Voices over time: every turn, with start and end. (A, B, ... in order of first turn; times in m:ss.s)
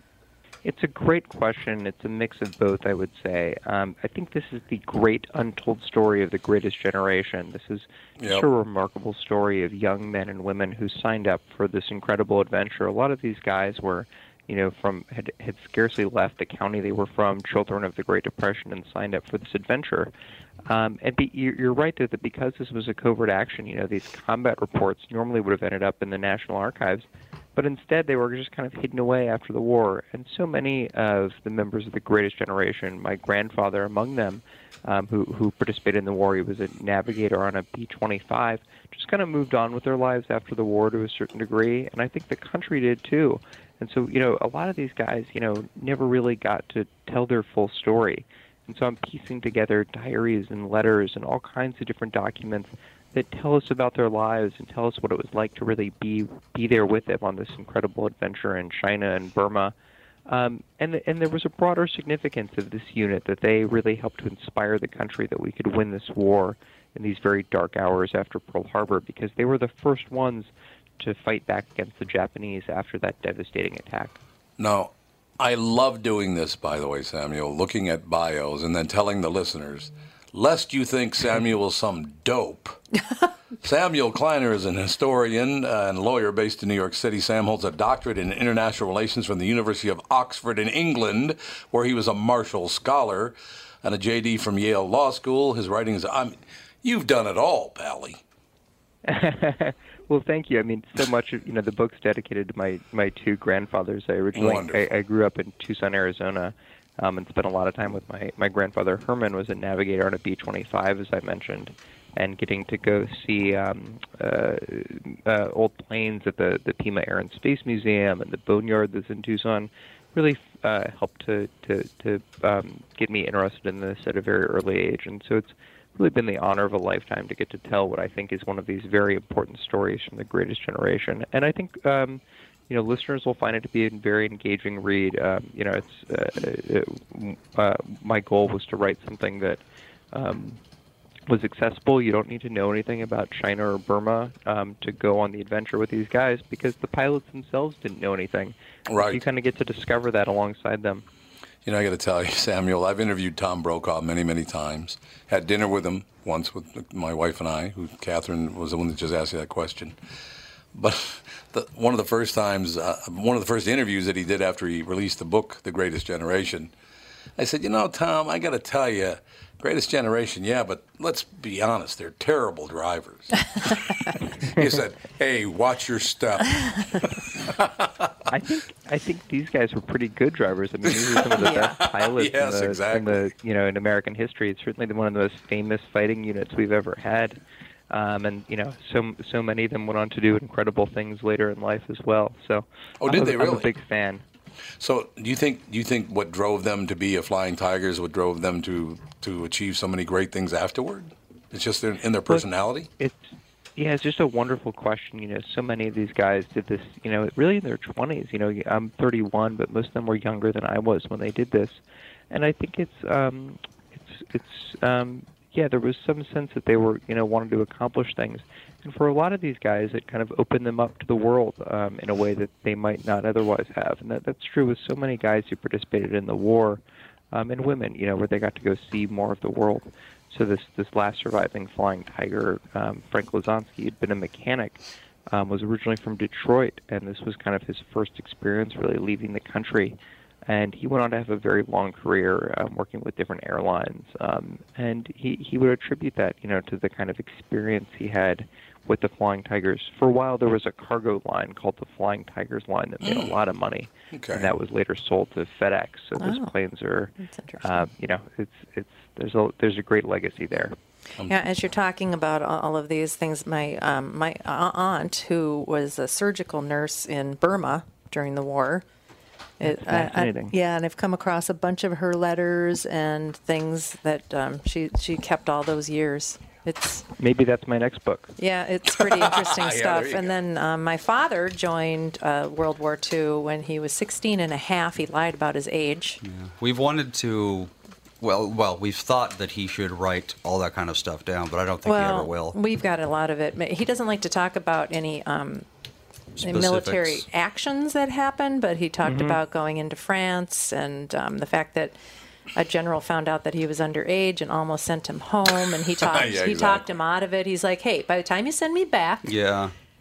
0:00.6-0:20.1 A
0:08.2-0:08.5 B
0:20.7-0:59.7 A
1:00.3-1:14.2 A
1:14.6-1:22.8 B
1:23.6-1:38.2 B
1:39.1-2:20.6 A
1:44.4-1:44.8 B
2:21.3-2:31.0 A
2:28.9-2:29.2 B
2:31.6-2:40.0 B
2:40.7-2:46.7 B
2:47.4-2:53.9 B
2:54.4-2:57.8 B
2:58.3-3:14.2 A
3:00.9-3:03.2 B
3:01.4-3:01.8 C
3:13.0-3:13.7 B
3:14.8-3:22.9 B
3:23.0-3:46.8 A
3:47.3-4:20.8 A
4:13.0-4:13.3 B
4:14.1-4:14.5 B
4:16.2-4:16.5 C
4:17.2-4:17.8 C
4:21.3-4:28.8 C
4:29.6-4:37.0 C
4:29.6-4:30.5 A
4:37.2-4:38.4 A
4:38.4-4:46.2 C
4:39.0-4:40.3 B
4:46.2-4:52.6 D
4:51.8-4:55.7 C
4:56.4-4:57.2 D
4:56.4-5:02.0 C
4:59.1-4:59.4 A
5:02.6-5:09.3 C
5:06.0-5:06.9 B
5:09.2-5:09.7 D